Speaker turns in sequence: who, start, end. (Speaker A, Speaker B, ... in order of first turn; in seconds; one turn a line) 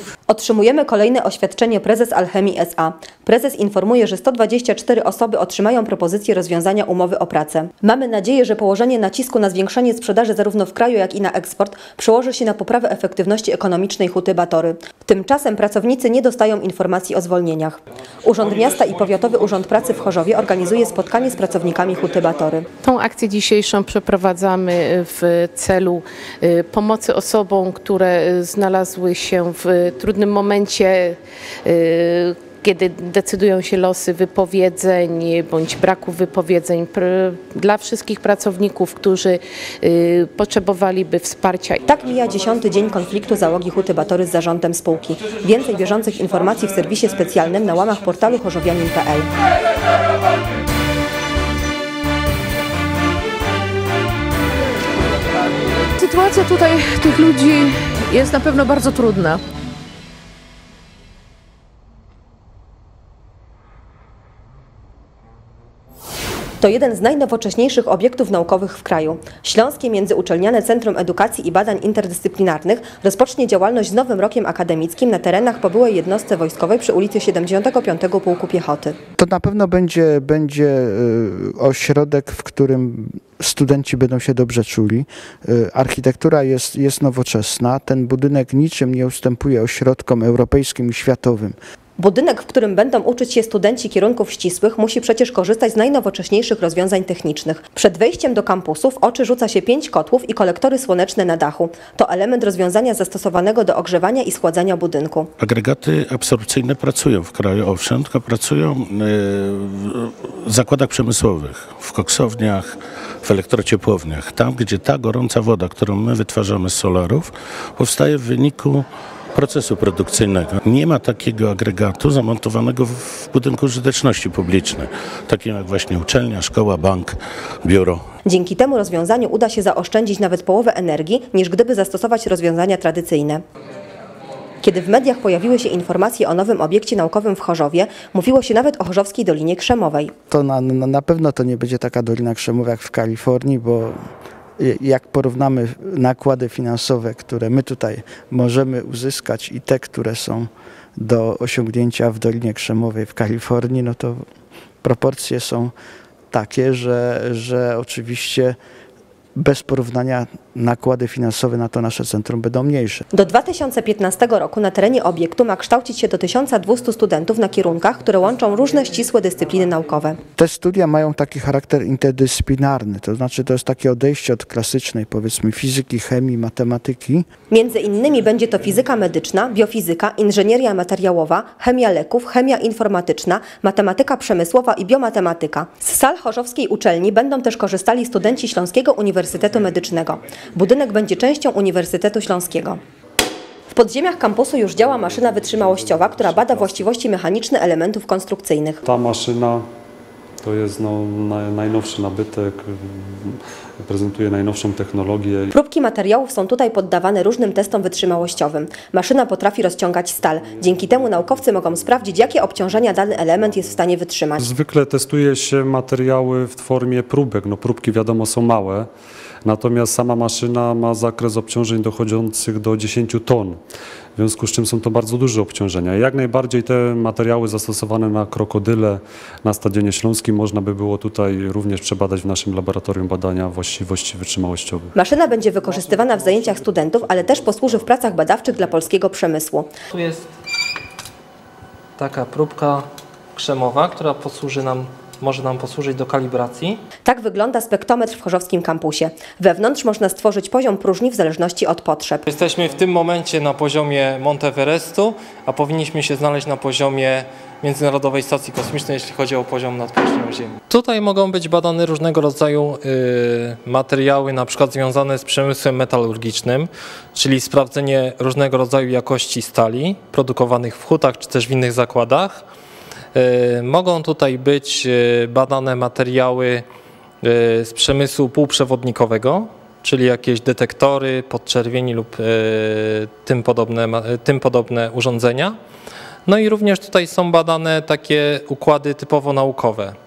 Speaker A: 0.3-22.7
Speaker B: 22.8-41.9
Speaker A: 41.9-49.3
Speaker C: 56.0-59.4
Speaker A: 66.6-79.0
Speaker D: 79.2-91.6
Speaker A: 92.0-105.3
Speaker E: 105.4-128.0
Speaker A: 128.2-133.4
Speaker A: 134.6-140.1
Speaker D: 140.3-144.0
Speaker D: 144.6-154.2
Speaker D: 154.8-155.7
Speaker D: 156.3-158.6
Speaker D: 159.4-163.0
Speaker A: 163.1-170.2
Speaker D: 170.4-177.3
Speaker A: 177.5-192.8
Speaker A: 193.7-198.8
Speaker F: 195.3-196.8
Speaker F: 198.8-199.6
Speaker F: 200.4-205.5
Speaker A: 205.5-214.5
Speaker F: 210.2-212.4
Speaker F: 214.4-218.9
Speaker F: 219.4-223.6
Speaker F: 224.2-234.9
Speaker A: 234.9-239.7
Speaker F: 236.2-237.6
Speaker G: 239.9-240.3
Speaker G: 242.0-246.8
Speaker A: 247.1-252.2
Speaker G: 252.3-272.4
Speaker G: 273.1-276.7
Speaker G: 277.2-285.6
Speaker G: 286.3-289.9